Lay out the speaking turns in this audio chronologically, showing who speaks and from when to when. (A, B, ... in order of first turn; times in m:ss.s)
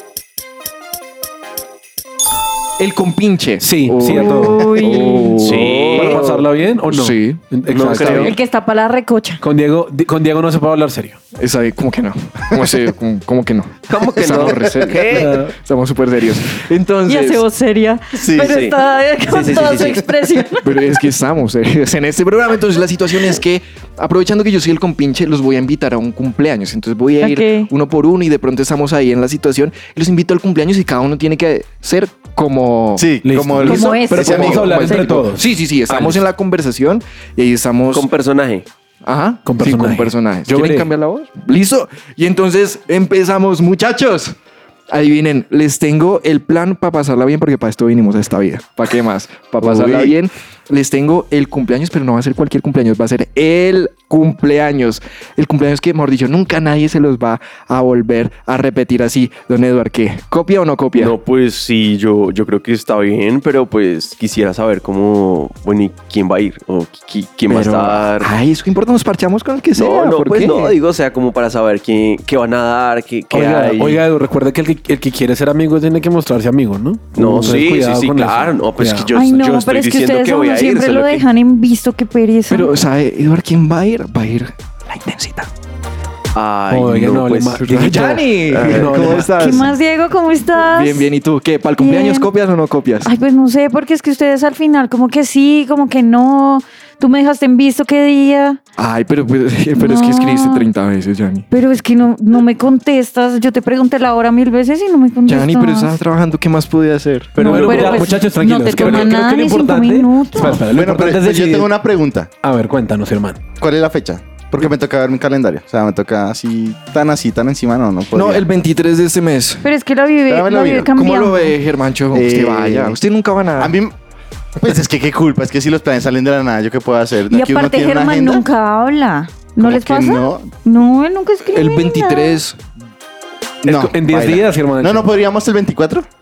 0:02.8-0:08.3 A
0:03.6-0:04.8 B
0:04.1-0:05.4 C
0:05.4-0:06.4 D
0:05.6-0:08.3 B
0:07.7-0:08.3 D
0:08.0-0:09.4 C
0:09.4-0:11.2 B
0:11.4-0:17.4 A
0:13.9-0:15.4 D
0:15.2-0:15.5 B
0:17.1-0:20.8 C
0:18.2-0:18.6 E
0:18.4-0:20.0 D
0:20.6-0:38.1 A
0:27.2-0:27.7 C
0:33.0-0:35.2 E
0:33.2-0:36.2 B
0:33.6-0:35.1 C
0:37.9-0:38.7 D
0:39.0-0:44.4 A
0:39.5-0:40.9 B
0:44.9-1:01.2 A
1:01.0-1:08.3 D
1:07.5-1:10.8 A
1:09.8-1:14.0 D
1:13.3-1:19.1 B
1:17.2-1:21.3 D
1:19.1-1:22.7 C
1:22.5-1:25.5 A
1:26.3-1:27.7 D
1:26.7-1:29.4 B
1:27.6-1:29.7 A
1:28.5-1:29.3 D
1:29.3-1:31.1 C
1:30.6-1:33.1 A
1:31.8-1:32.3 C
1:33.0-1:38.6 C
1:38.8-1:41.5 A
1:39.8-1:40.7 C
1:41.5-1:46.0 C
1:45.3-1:48.0 A
1:47.4-1:51.7 B
1:47.4-1:50.6 C
1:50.5-1:52.3 E
1:52.4-1:53.4 B
1:53.6-1:58.4 E
1:58.1-1:59.7 A
1:59.6-2:01.6 C
2:00.3-2:00.9 E
2:00.8-2:03.8 A
2:02.1-2:03.0 E
2:03.6-2:03.9 E
2:04.6-2:08.5 E
2:07.3-2:12.4 C
2:09.6-2:10.5 E
2:11.5-2:12.6 A
2:13.6-2:16.1 E
2:13.6-2:15.1 B